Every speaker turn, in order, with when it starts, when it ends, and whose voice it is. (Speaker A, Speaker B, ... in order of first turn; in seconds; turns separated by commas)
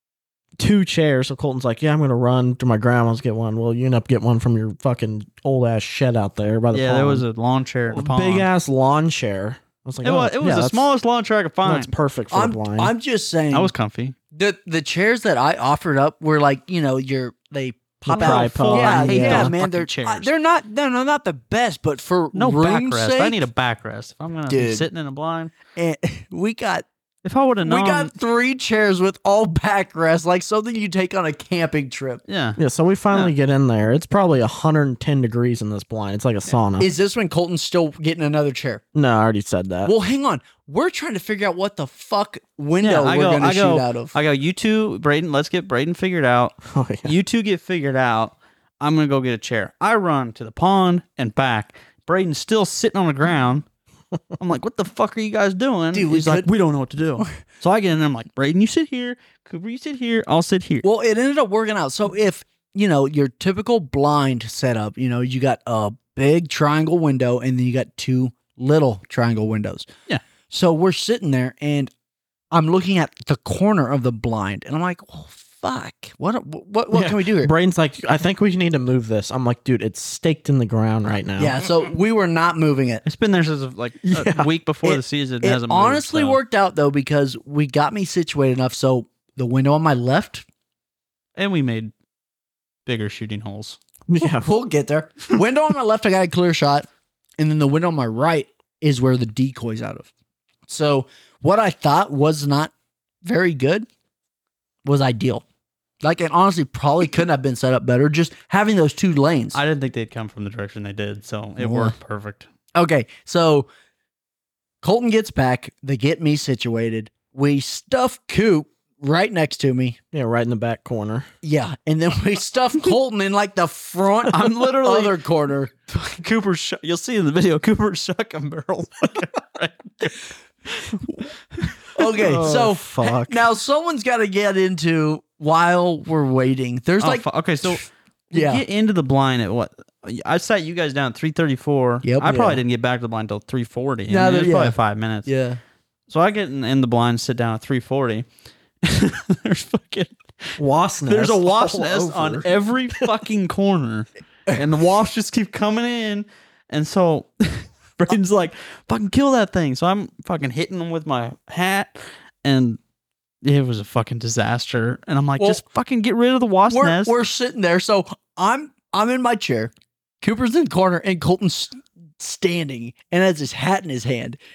Speaker A: 0.6-7.2, Speaker B: 6.7-8.5, Speaker A: 7.9-10.8, Speaker B: 10.0-11.9, Speaker A: 11.7-12.9, Speaker C: 12.3-13.7, Speaker B: 13.5-14.2, Speaker C: 14.3-23.4, Speaker A: 18.1-19.5, Speaker B: 18.1-20.3, Speaker B: 22.3-25.5, Speaker C: 24.5-24.9, Speaker C: 25.8-26.9, Speaker B: 27.2-28.1, Speaker C: 27.6-32.2, Speaker B: 32.3-32.6, Speaker A: 32.6-36.9, Speaker C: 36.8-38.8, Speaker A: 39.0-39.9, Speaker C: 39.9-44.2, Speaker B: 42.8-53.6, Speaker A: 46.6-47.1, Speaker B: 54.4-60.9, Speaker C: 55.9-56.5, Speaker C: 60.8-69.9, Speaker C: 70.5-71.9, Speaker C: 72.5-77.5, Speaker A: 76.9-81.6, Speaker C: 81.4-83.0, Speaker B: 83.1-86.4, Speaker A: 84.1-84.5, Speaker C: 84.8-90.5, Speaker B: 91.4-91.9, Speaker B: 92.9-93.8, Speaker A: 94.1-94.5, Speaker C: 94.4-96.9, Speaker C: 97.4-100.1, Speaker C: 100.7-102.7, Speaker C: 103.2-103.9, Speaker C: 104.8-105.4, Speaker C: 106.0-109.6, Speaker B: 109.5-112.5, Speaker C: 111.6-112.0, Speaker C: 112.8-113.7, Speaker C: 114.8-120.0, Speaker A: 120.1-121.3, Speaker C: 121.4-125.7, Speaker B: 124.3-125.2, Speaker B: 125.9-130.3, Speaker C: 131.9-137.8, Speaker A: 132.1-133.4, Speaker B: 137.0-145.3, Speaker C: 138.3-138.6, Speaker C: 142.0-142.3, Speaker A: 142.2-142.6, Speaker C: 144.1-145.6, Speaker B: 146.1-148.2, Speaker B: 148.8-150.6, Speaker A: 150.6-153.0, Speaker B: 151.1-162.8, Speaker B: 163.4-167.1, Speaker C: 166.7-174.4